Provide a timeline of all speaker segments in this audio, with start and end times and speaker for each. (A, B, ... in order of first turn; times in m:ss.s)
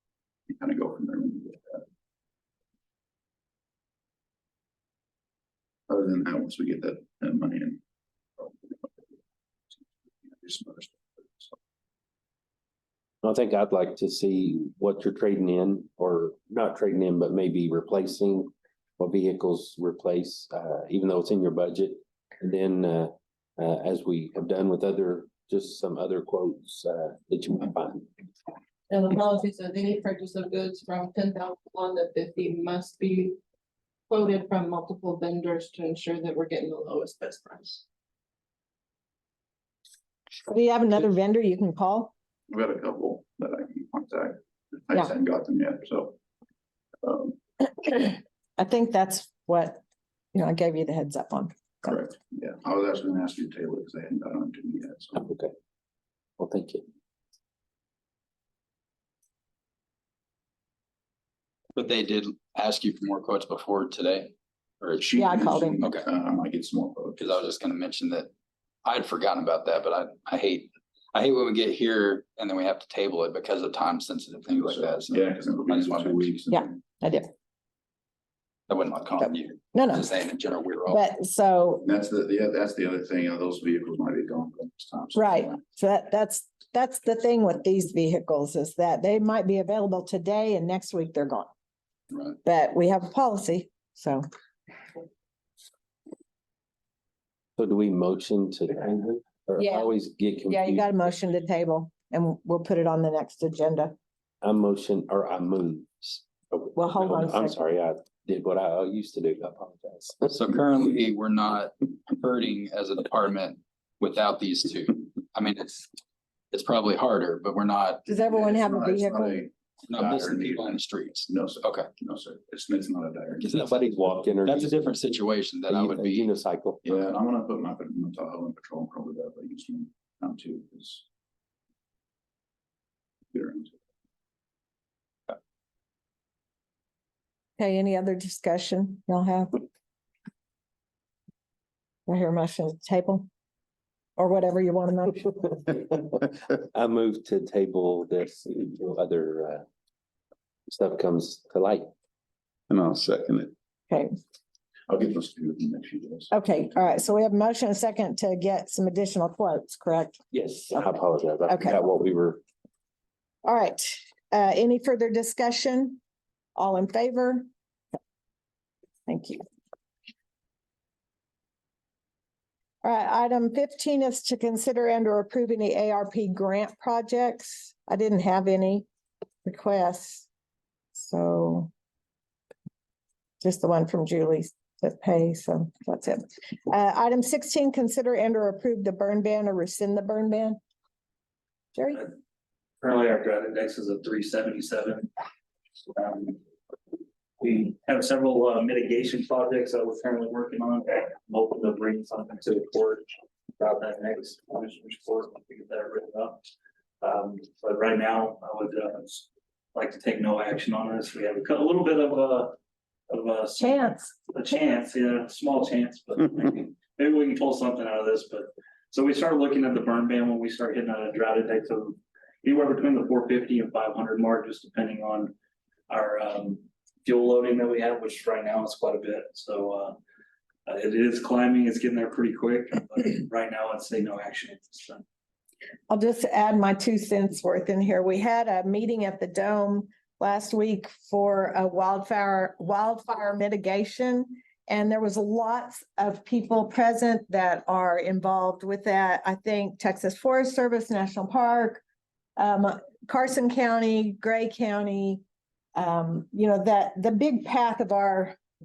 0:00.5-0:01.8 A
0:05.9-0:07.8 A
0:08.4-0:09.2 A
0:09.7-0:11.6 A
0:13.2-0:28.1 B
0:28.9-0:33.4 C
0:34.1-0:37.8 C
0:40.5-0:42.1 D
0:42.5-0:44.4 A
0:44.9-0:46.2 A
0:47.0-0:47.4 A
0:47.8-0:49.8 D
0:50.3-0:52.0 D
0:51.8-0:55.2 A
0:55.2-0:55.5 B
0:56.4-0:56.8 B
1:01.8-1:05.0 E
1:05.0-1:07.4 A
1:05.2-1:05.8 D
1:05.8-1:06.1 E
1:07.2-1:08.3 E
1:08.8-1:16.3 E
1:14.5-1:16.8 A
1:16.5-1:17.3 D
1:18.7-1:21.0 E
1:19.7-1:20.1 D
1:20.9-1:21.8 D
1:21.8-1:25.6 A
1:25.1-1:31.5 D
1:32.4-1:34.2 D
1:37.6-1:41.0 B
1:39.6-1:39.9 D
1:40.5-1:43.9 D
1:44.4-1:50.4 B
1:46.7-1:47.6 D
1:50.3-1:55.9 E
1:56.5-1:58.0 E
1:58.1-1:59.5 D
1:58.2-2:03.6 A
1:59.9-2:01.9 E
2:03.4-2:06.3 E
2:03.5-2:04.7 B
2:05.7-2:06.8 B
2:06.8-2:11.0 A
2:13.3-2:13.7 A
2:17.6-2:19.6 D
2:22.1-2:23.3 D
2:24.2-2:25.5 D
2:25.7-2:29.6 B
2:30.7-2:31.9 B
2:32.7-2:33.5 A
2:34.9-2:36.3 A
2:36.3-2:40.2 D
2:40.3-2:42.4 B
2:41.5-2:41.8 D
2:43.4-2:46.0 D
2:46.6-2:47.5 D
2:49.1-2:49.4 D
2:52.8-2:58.8 D
2:59.4-3:00.3 D
3:00.9-3:01.7 D
3:03.4-3:10.6 D
3:11.7-3:12.1 D
3:12.8-3:15.1 F
3:15.9-3:16.4 F
3:17.4-3:23.1 F
3:23.6-3:26.4 F
3:27.0-3:32.6 F
3:33.1-3:45.3 F
3:33.6-3:34.6 D
3:45.9-3:50.0 F
3:50.6-3:55.0 F
3:55.9-4:11.8 D
4:12.4-4:15.2 D
4:15.8-4:18.4 D